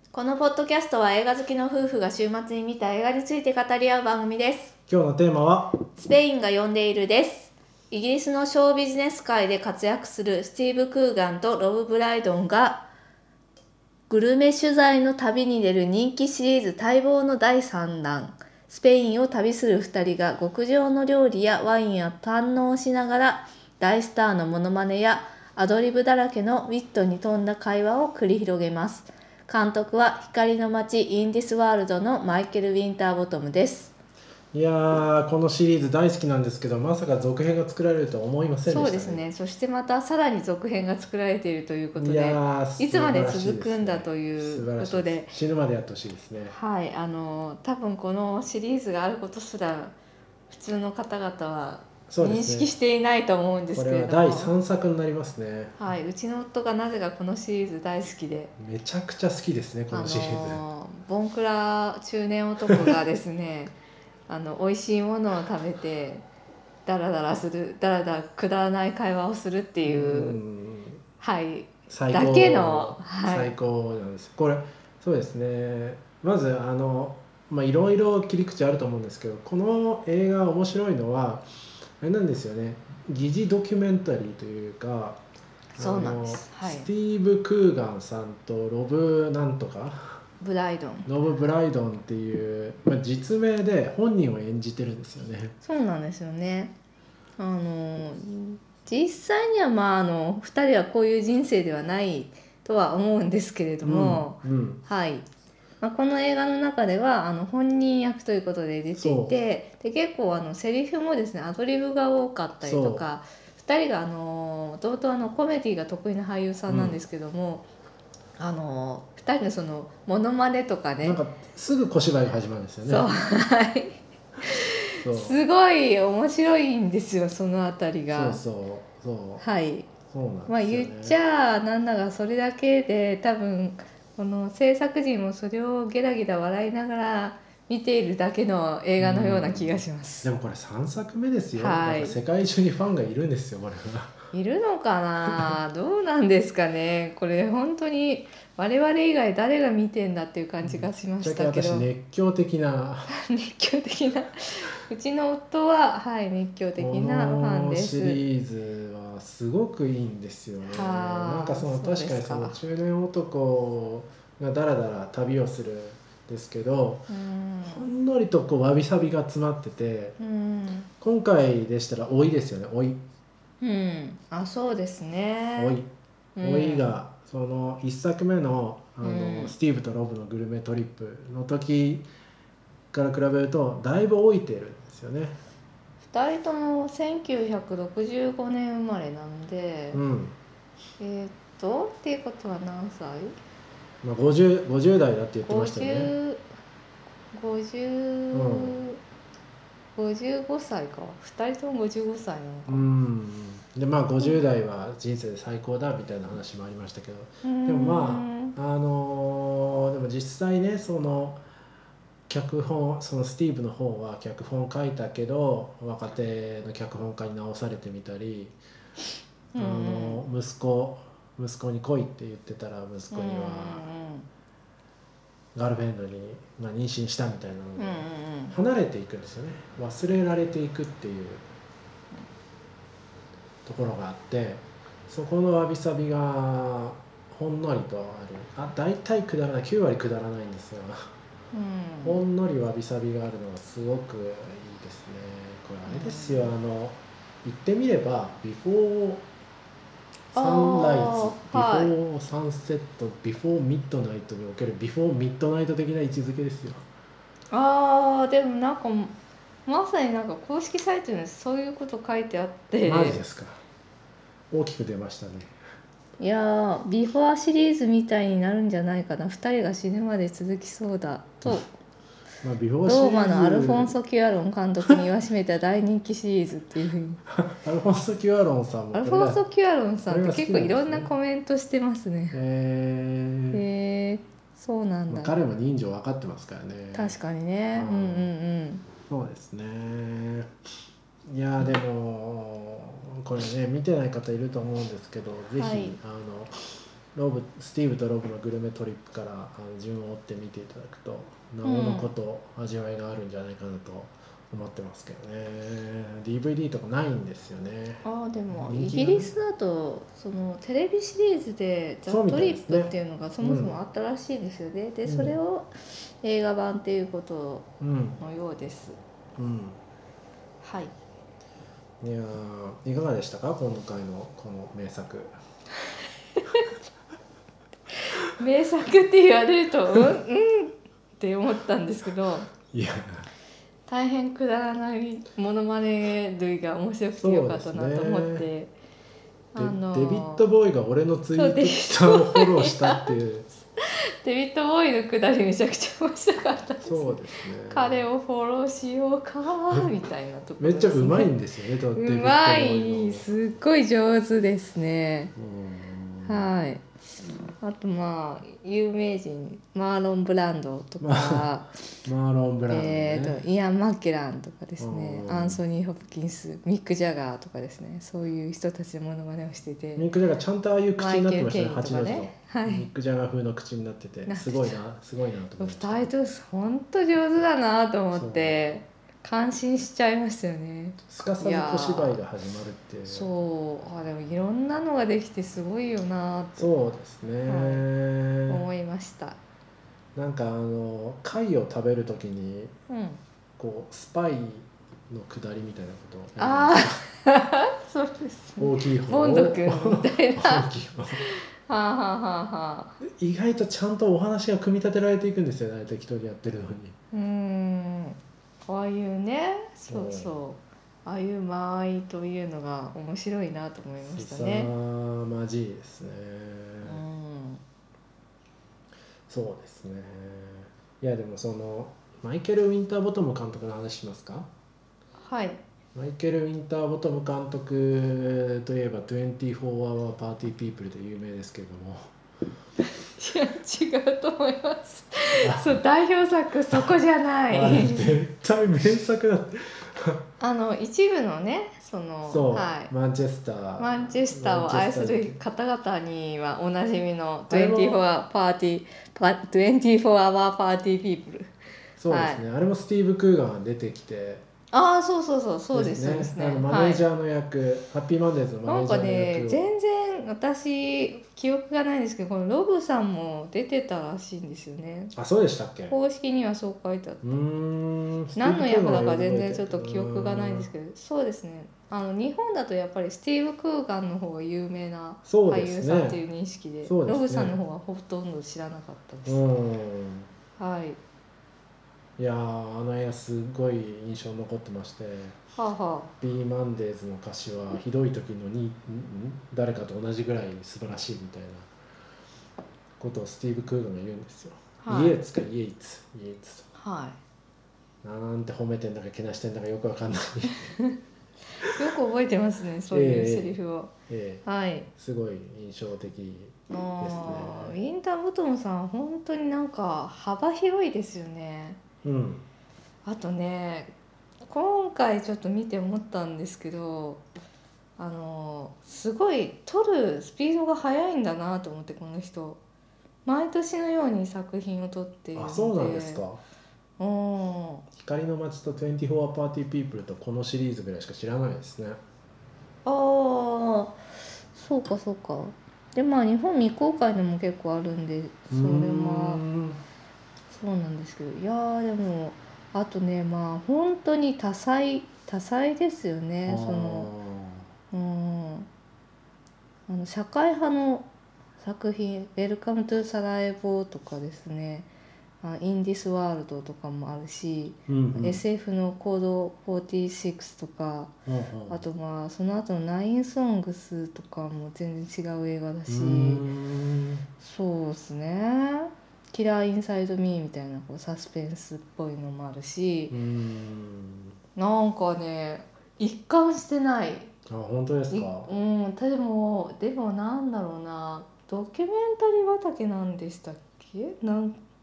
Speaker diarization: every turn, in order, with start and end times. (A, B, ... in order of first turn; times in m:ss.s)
0:00.1-0:04.7 A
0:04.9-0:05.8 B
0:05.9-0:12.8 A
0:14.1-0:33.9 A
0:34.5-0:39.2 B
0:38.7-0:45.4 A
0:42.0-0:46.5 B
0:46.5-0:49.9 A
0:50.5-0:54.5 A
0:52.1-0:52.7 B
0:53.7-0:55.9 B
0:55.8-0:58.5 A
0:58.6-1:00.6 B
0:59.9-1:03.7 A
1:04.3-1:06.3 A
1:06.8-1:10.4 A
1:09.9-1:11.0 B
1:11.2-1:13.5 A
1:11.9-1:21.5 B
1:22.0-1:25.2 B
1:25.8-1:26.9 A
1:25.8-1:30.2 B
1:30.4-1:31.1 A
1:31.0-1:35.6 B
1:35.6-1:36.7 A
1:37.4-1:45.3 A
1:43.8-1:44.8 B
1:45.8-1:57.6 A
1:48.9-1:49.4 B
1:52.6-1:53.0 B
1:56.7-1:57.0 B
1:58.4-2:01.2 A
2:01.0-2:03.1 B
2:02.8-2:08.4 A
2:05.0-2:05.4 B
2:08.1-2:09.4 B
2:09.4-2:09.9 A
2:10.1-2:11.2 B
2:10.5-2:20.3 A
2:19.0-2:24.2 B
2:21.6-2:22.2 A
2:24.3-2:31.9 A
2:30.6-2:33.1 B
2:33.1-2:38.2 A
2:36.8-2:47.1 B
2:40.7-2:42.6 A
2:47.1-2:47.8 A
2:47.6-2:50.2 B
2:50.2-2:50.9 A
2:51.0-2:53.0 B
2:53.6-2:55.8 A
2:55.6-2:55.9 B
2:56.4-2:56.9 A
2:56.4-3:02.1 B
2:59.0-2:59.5 A
3:02.9-3:05.4 B
3:06.0-3:10.0 A
3:09.9-3:10.4 B
3:11.0-3:13.3 A
3:14.0-3:16.1 B
3:15.4-3:16.4 A
3:17.3-3:19.0 A
3:18.3-3:18.8 B
3:20.0-3:22.9 A
3:22.6-3:31.4 B
3:27.4-3:28.6 A
3:32.3-3:38.6 B
3:39.5-3:40.2 A
3:39.5-3:43.9 B
3:43.1-3:44.3 A
3:45.5-3:51.5 B
3:47.8-3:48.5 A
3:53.6-4:01.1 B
4:01.5-4:02.2 A
4:02.0-4:09.3 B
4:05.9-4:06.5 A
4:10.3-4:16.8 B
4:10.3-4:11.9 A
4:17.5-4:23.2 A
4:22.8-4:23.6 B
4:24.5-4:25.5 B
4:26.2-4:31.7 A
4:32.4-4:33.9 B
4:32.8-4:37.2 A
4:37.3-4:39.4 B
4:38.9-4:42.4 A
4:40.1-4:41.1 B
4:42.3-4:43.6 B
4:43.5-4:45.3 A
4:45.1-4:47.2 B
4:46.9-4:48.8 A
4:47.7-4:48.3 B
4:49.1-4:50.5 B
4:51.2-4:56.5 B
4:55.5-4:56.0 A
4:57.1-5:09.3 B
5:01.6-5:02.1 A
5:08.0-5:17.7 A
5:12.1-5:13.8 B
5:15.0-5:15.4 B
5:17.8-5:18.2 B
5:18.2-5:19.0 A
5:19.4-5:19.8 B
5:20.6-5:20.9 A
5:22.0-5:25.4 B
5:26.4-5:26.6 A
5:28.1-5:32.5 A
5:32.7-5:33.3 B
5:33.9-5:38.7 A
5:37.2-5:38.5 B
5:39.5-5:40.4 A
5:39.6-5:43.5 B
5:41.4-5:43.1 A
5:43.8-5:51.3 A
5:46.8-5:48.1 B
5:50.6-5:53.3 B
5:51.9-5:55.3 A
5:55.4-5:56.5 B
5:56.2-5:56.8 A
5:57.6-6:01.8 A
6:01.0-6:01.5 B
6:02.0-6:03.4 B
6:02.7-6:10.0 A
6:04.8-6:05.6 B
6:10.0-6:16.1 B
6:11.0-6:12.9 A
6:14.3-6:14.8 A
6:15.6-6:22.2 A
6:18.1-6:18.5 B
6:21.1-6:23.3 B
6:23.0-6:26.7 A
6:26.6-6:28.6 B
6:27.4-6:27.8 A
6:28.5-6:29.4 A
6:30.2-6:32.7 B
6:32.9-6:33.2 A
6:33.6-6:37.0 B
6:36.4-6:40.6 A
6:38.6-6:41.2 B
6:41.2-6:43.0 A
6:43.0-6:47.0 B
6:47.1-6:54.7 A
6:49.9-6:50.4 B
6:54.0-6:57.0 B
6:56.8-6:57.6 A
6:59.3-7:04.5 B
7:05.2-7:05.6 A
7:05.9-7:12.1 B
7:12.8-7:18.2 A
7:15.4-7:15.8 B
7:17.5-7:20.2 B
7:20.4-7:22.9 A
7:22.2-7:25.4 B
7:23.8-7:31.5 A
7:27.5-7:28.0 B
7:32.0-7:34.4 B
7:32.1-7:32.4 A
7:34.7-7:37.0 A
7:35.7-7:39.7 B
7:38.6-7:45.1 A
7:45.1-7:46.0 B
7:45.9-7:47.3 A
7:47.2-7:50.7 B
7:48.4-7:59.4 A
7:55.2-7:56.2 B
7:56.8-7:57.6 B
7:59.2-8:00.3 B
8:00.6-8:01.0 A
8:02.2-8:05.4 B
8:05.6-8:06.1 A
8:06.2-8:11.7 B
8:13.0-8:16.7 B
8:14.8-8:15.2 A
8:16.8-8:17.2 A
8:18.0-8:20.7 B
8:20.6-8:21.0 A
8:21.6-8:23.9 A
8:22.9-8:27.8 B
8:24.4-8:24.9 A
8:26.7-8:31.8 A
8:32.0-8:32.4 B
8:33.0-8:33.9 A
8:34.4-8:37.2 A
8:38.0-8:42.6 A
8:43.2-8:46.2 A
8:45.3-8:46.4 B
8:47.0-8:47.8 A
8:47.9-8:52.0 B
8:52.8-8:54.0 A
8:54.5-8:59.4 A
8:58.5-8:59.8 B
9:00.5-9:07.1 A
9:06.4-9:07.7 B
9:07.9-9:08.7 A
9:09.9-9:11.1 A
9:11.6-9:14.9 A
9:15.4-9:21.1 A
9:17.9-9:18.4 B
9:21.2-9:21.8 B
9:21.7-9:26.4 A
9:25.9-9:27.2 B
9:27.4-9:33.1 A
9:33.1-9:34.4 B
9:34.6-9:37.3 A
9:37.5-9:38.5 B
9:38.1-9:44.6 A